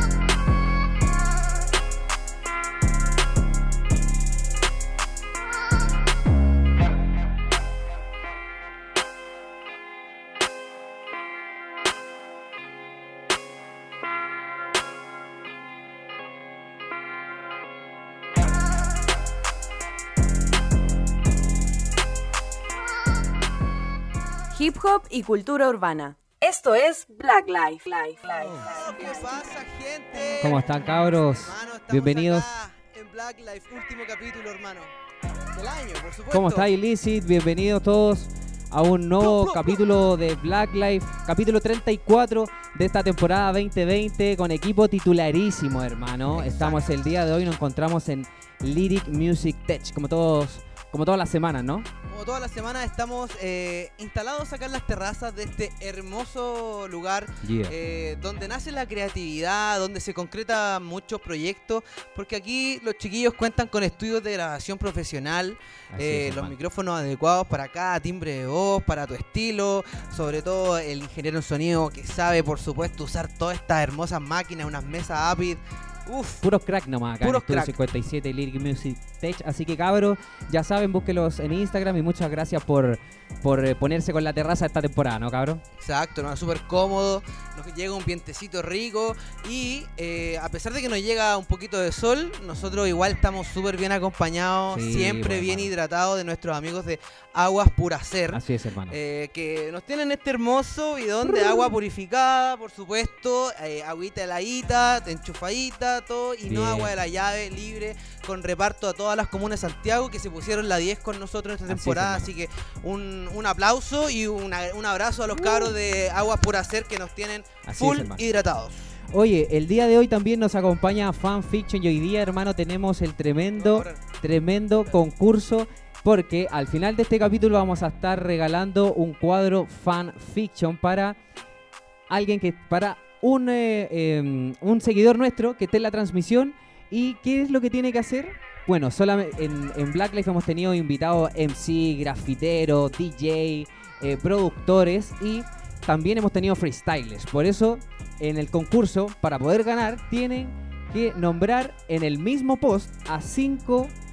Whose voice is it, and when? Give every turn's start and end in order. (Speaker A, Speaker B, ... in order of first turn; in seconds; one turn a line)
Speaker A: 24.5-29.5
Speaker B: 28.6-34.9
Speaker C: 30.4-32.5
Speaker B: 35.5-36.7
Speaker C: 36.3-51.9
Speaker B: 39.2-39.8
Speaker B: 46.3-46.7
Speaker B: 52.1-76.4
Speaker C: 57.4-57.7
Speaker C: 65.9-66.5
Speaker C: 76.4-85.6
Speaker B: 77.2-77.7
Speaker B: 85.8-118.9
Speaker C: 94.7-95.7
Speaker C: 98.3-99.0
Speaker C: 106.5-106.9
Speaker C: 111.7-112.3
Speaker C: 115.3-115.7
Speaker C: 117.6-118.2
Speaker C: 119.1-131.2
Speaker B: 123.6-124.0
Speaker C: 132.1-153.9